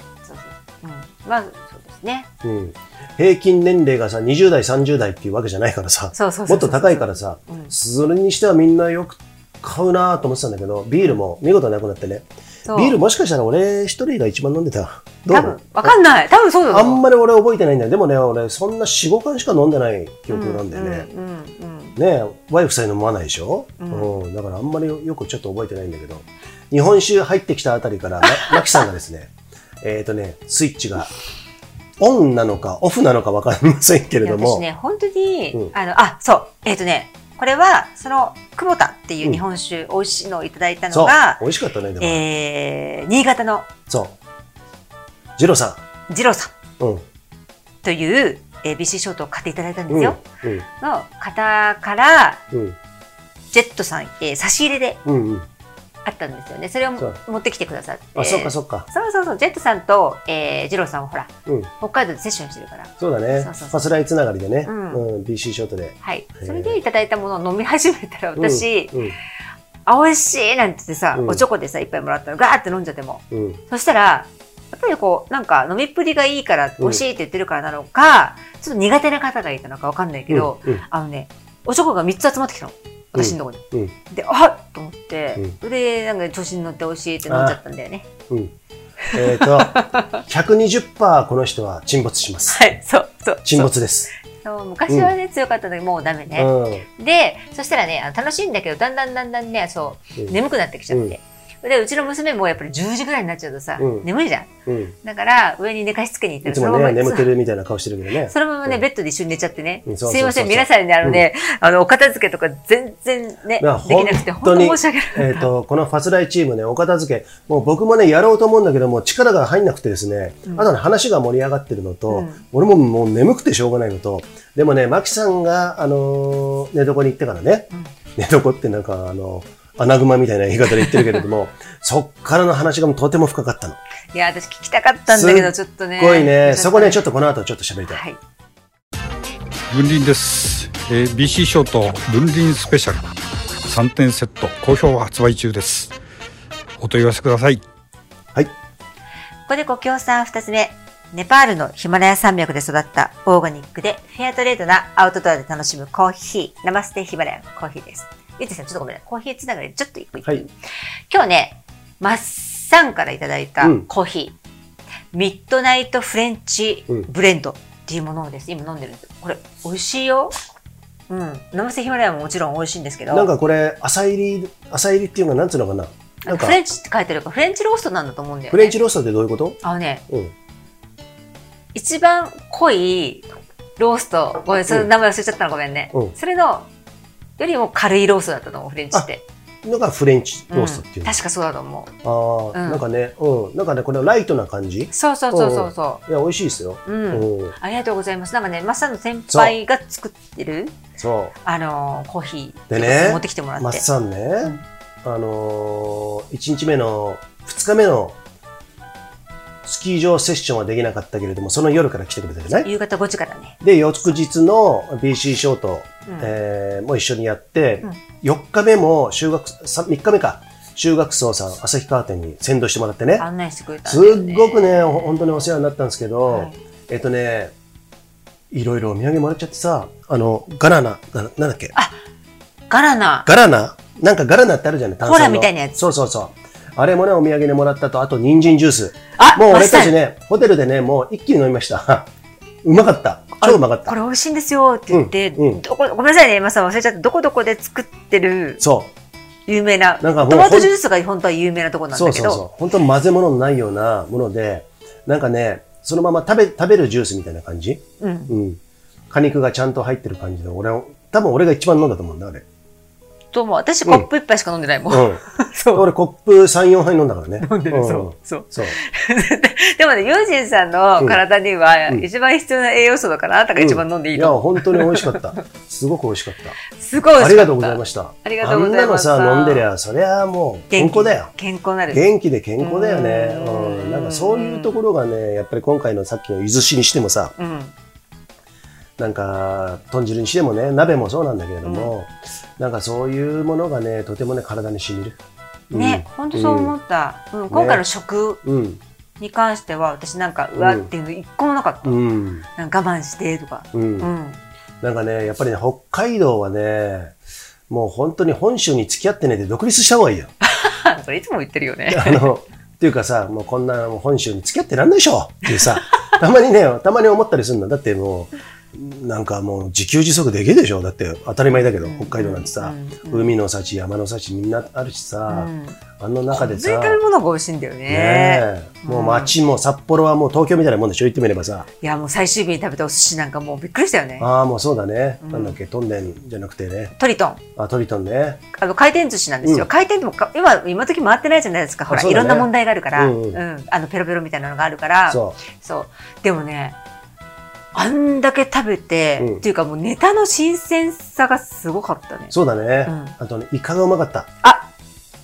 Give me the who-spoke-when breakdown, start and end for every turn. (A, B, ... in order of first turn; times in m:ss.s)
0:00.2-0:02.3 A
0:02.4-0:15.9 B
0:06.1-0:07.7 A
0:12.7-0:13.0 A
0:15.3-0:17.0 A
0:16.7-0:21.1 B
0:20.3-0:22.0 A
0:22.0-0:29.3 B
0:23.8-0:24.1 A
0:28.2-0:28.6 A
0:29.8-0:31.1 B
0:32.0-0:34.6 B
0:34.2-0:41.4 A
0:40.9-0:42.2 B
0:42.0-0:43.7 A
0:43.9-0:44.2 B
0:45.4-0:45.8 B
0:46.1-0:46.5 A
0:47.8-0:52.4 A
0:49.9-0:50.6 B
0:52.5-0:52.8 B
0:53.5-0:55.0 A
0:55.0-0:55.5 B
0:56.0-1:03.8 A
0:58.2-0:58.9 B
1:03.0-1:06.8 B
1:04.6-1:05.0 A
1:06.0-1:08.9 A
1:08.4-1:09.2 B
1:09.9-1:28.1 A
1:11.1-1:11.4 B
1:13.3-1:13.6 B
1:20.3-1:20.8 B
1:23.2-1:23.9 B
1:27.3-1:27.6 B
1:29.1-1:30.2 A
1:29.1-1:32.6 B
1:32.5-1:33.7 A
1:33.4-1:34.1 B
1:34.3-1:44.5 A
1:36.4-1:36.9 B
1:40.9-1:41.2 B
1:43.8-1:44.1 B
1:44.7-1:45.0 B
1:45.0-1:47.3 A
1:46.4-1:48.8 B
1:48.3-1:55.5 A
1:49.9-1:51.2 B
1:53.6-2:13.8 B
2:02.1-2:02.4 A
2:10.8-2:11.2 A
2:14.1-2:17.0 A
2:15.1-2:18.0 B
2:17.9-2:18.2 A
2:19.7-2:23.0 C
2:23.6-2:25.9 C
2:26.8-2:27.6 C
2:29.5-2:40.5 A
2:41.1-2:44.4 A
2:43.6-2:43.9 B
2:45.1-2:50.4 A
2:51.1-2:53.3 A
2:53.1-2:56.6 B
2:56.2-2:58.8 A
2:58.5-3:00.3 B
2:59.6-3:00.0 A
3:01.8-3:03.3 A
3:03.8-3:06.7 A
3:07.4-3:09.2 A
3:09.6-3:11.2 B
3:10.5-3:11.9 A
3:12.0-3:17.6 B
3:12.5-3:12.8 A
3:14.9-3:16.0 A
3:16.8-3:20.8 A
3:19.3-3:19.5 B
3:21.0-3:21.4 B
3:21.4-3:23.8 A
3:22.7-3:28.2 B
3:29.6-3:32.7 B
3:32.5-3:33.6 A
3:33.6-3:43.2 B
3:36.1-3:36.3 A
3:43.2-3:45.4 A
3:43.9-3:47.5 B
3:46.3-3:46.6 A
3:48.5-3:51.7 B
3:52.7-3:53.3 A
3:53.3-4:02.1 B
3:55.0-3:55.8 A
3:59.2-4:00.0 A
4:02.6-4:04.0 B
4:03.4-4:08.6 A
4:04.9-4:05.6 B
4:08.6-4:08.9 B
4:09.5-4:12.4 A
4:10.0-4:10.7 B
4:11.9-4:22.4 B
4:18.0-4:18.4 A
4:23.3-4:25.9 A
4:24.9-4:25.2 B
4:25.7-4:28.8 B
4:27.4-4:35.4 A
4:33.6-4:36.6 B
4:36.7-4:39.7 A
4:37.2-4:41.3 B
4:40.7-4:42.0 A
4:41.9-4:47.3 B
4:42.6-4:44.8 A
4:47.4-4:47.7 A
4:49.0-4:55.2 B
4:51.6-4:51.9 A
4:55.7-4:56.7 B
4:55.7-4:58.4 A
4:57.5-4:57.8 B
4:58.4-4:58.8 B
4:59.2-5:02.0 A
5:00.6-5:00.9 B
5:01.8-5:02.5 B
5:02.6-5:04.4 A
5:03.7-5:04.1 B
5:04.8-5:07.2 B
5:07.7-5:10.3 B
5:10.4-5:12.3 A
5:11.9-5:27.0 B
5:15.5-5:16.1 A
5:21.8-5:23.3 A
5:25.3-5:25.8 A
5:26.3-5:29.4 A
5:27.9-5:31.7 B
5:31.8-5:34.3 A
5:34.2-5:37.0 B
5:35.2-5:35.6 A
5:37.0-5:37.4 A
5:37.6-5:38.4 B
5:38.5-5:46.8 A
5:41.9-5:43.4 B
5:45.1-5:45.4 B
5:47.8-5:52.3 A
5:52.3-5:54.3 B
5:52.8-5:53.1 A